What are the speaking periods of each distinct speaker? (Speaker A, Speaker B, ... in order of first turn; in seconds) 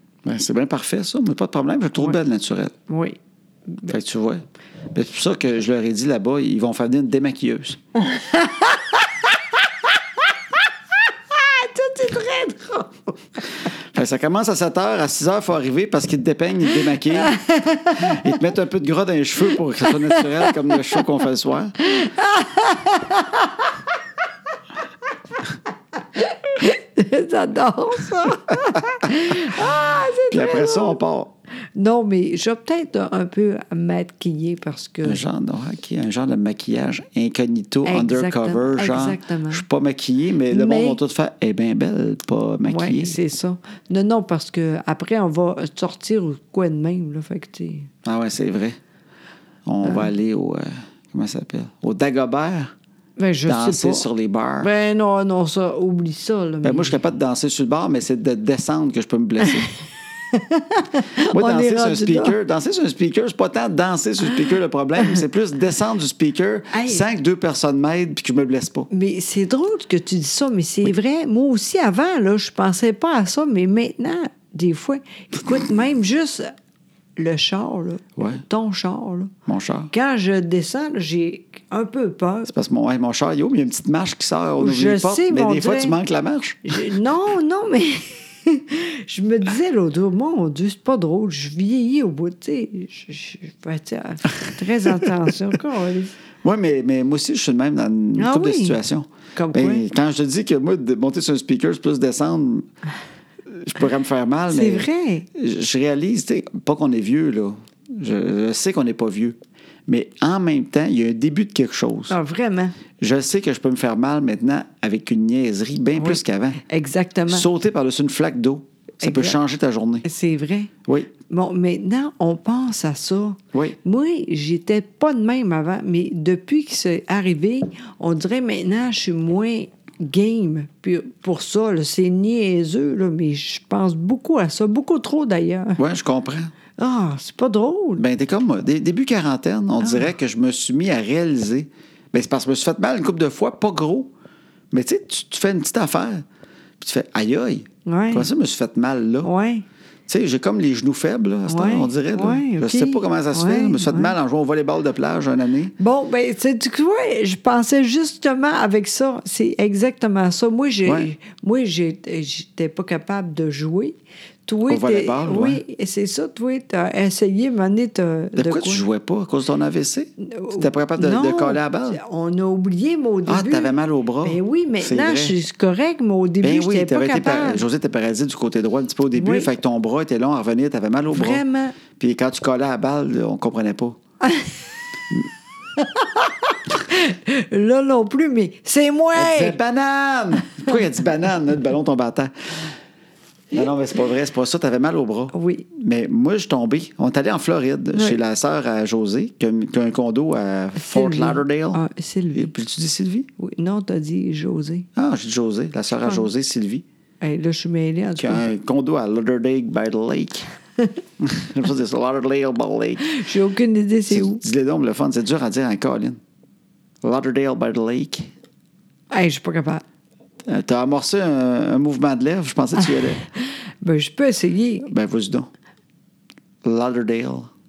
Speaker A: 0.2-2.8, 3.9-7.8, 13.9-21.8, 30.3-31.3, 35.0-43.2, 48.0-48.8, 49.6-52.7, 53.5-54.7, 56.6-59.7, 61.3-68.9, 78.2-78.4, 79.5-79.9, 82.5-86.8, 96.4-102.7, 103.5-112.1, 113.0-116.6, 117.3-120.0, 135.8-136.5, 137.9-144.1, 144.7-146.2, 146.8-149.3, 150.1-155.7, 164.7-165.6, 168.3-172.0, 173.2-175.4, 176.4-181.4, 181.9-184.0, 189.1-192.7, 193.5-201.8, 202.3-203.3, 204.9-206.8, 208.2-210.5, 211.2-213.2, 214.1-216.2, 217.0-218.3, 220.5-223.2, 224.8-225.5, 226.6-227.5
Speaker B: 2.9-4.0, 8.0-9.1, 11.3-13.2, 17.1-18.3, 19.8-21.0, 21.8-23.7, 26.1-31.0, 31.7-35.2, 37.8-39.6, 40.5-41.0, 42.6-47.9, 53.2-54.1, 54.6-57.0, 60.3-62.4, 66.7-67.0, 68.9-76.5, 77.2-79.3, 79.9-82.5, 84.6-86.0, 86.6-96.1, 98.2-98.8, 99.3-99.8, 104.5-105.3, 112.1-112.8, 116.0-117.5, 119.0-119.4, 120.0-120.7, 121.3-135.8, 136.8-138.0, 139.8-140.1, 147.8-148.3, 149.2-149.6, 151.5-154.1, 155.8-168.8, 170.2-177.6, 179.1-179.5, 181.1-181.8, 184.2-184.5, 185.8-189.6, 195.3-195.7, 197.9-198.2, 200.8-202.5, 203.4-204.9, 207.2-208.4, 213.1-214.4, 219.1-219.8, 223.8-224.9